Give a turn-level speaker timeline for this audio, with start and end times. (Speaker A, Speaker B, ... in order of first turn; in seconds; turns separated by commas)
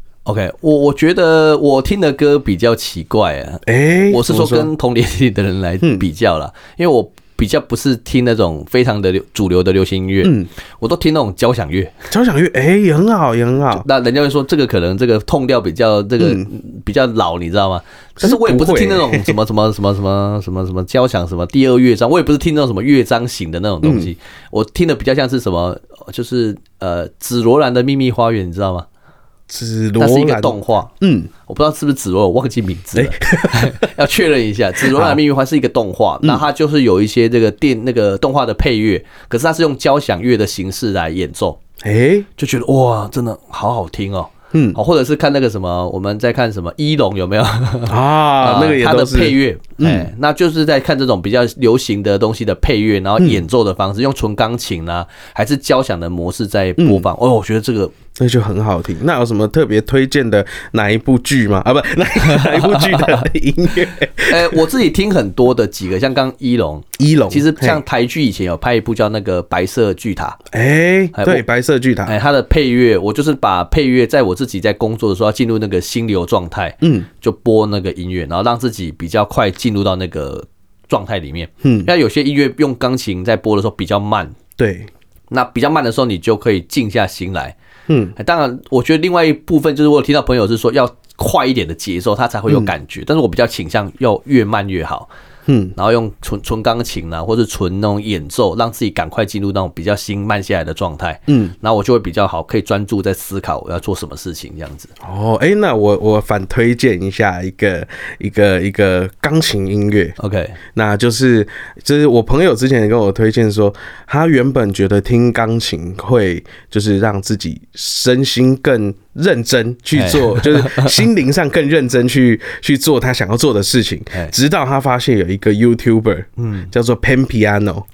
Speaker A: 0.3-11.9, Speaker B: 3.7-4.7, Speaker B: 10.2-10.5, Speaker B: 12.1-13.8, Speaker A: 13.7-28.9, Speaker B: 16.2-16.5, Speaker B: 18.2-19.3, Speaker B: 23.8-24.1, Speaker B: 29.5-31.3, Speaker A: 30.0-30.9, Speaker A: 31.5-41.6, Speaker B: 33.0-33.9, Speaker B: 34.8-35.2, Speaker B: 41.8-42.3, Speaker A: 42.4-57.9, Speaker B: 44.5-44.8, Speaker B: 47.9-50.1, Speaker B: 56.8-57.1, Speaker B: 58.2-64.6, Speaker A: 62.2-63.3, Speaker A: 64.3-70.4, Speaker B: 67.0-67.8, Speaker B: 70.5-72.2, Speaker A: 71.1-71.4, Speaker A: 72.1-84.3, Speaker B: 76.8-77.1, Speaker B: 81.6-81.9, Speaker B: 84.6-84.9, Speaker A: 85.3-87.5, Speaker B: 87.9-88.2, Speaker A: 88.2-95.1, Speaker B: 95.5-95.8, Speaker A: 95.8-104.9, Speaker B: 101.3-101.5, Speaker B: 105.0-110.2, Speaker A: 110.2-110.6, Speaker B: 110.7-127.8, Speaker A: 120.0-121.0, Speaker A: 126.4-126.7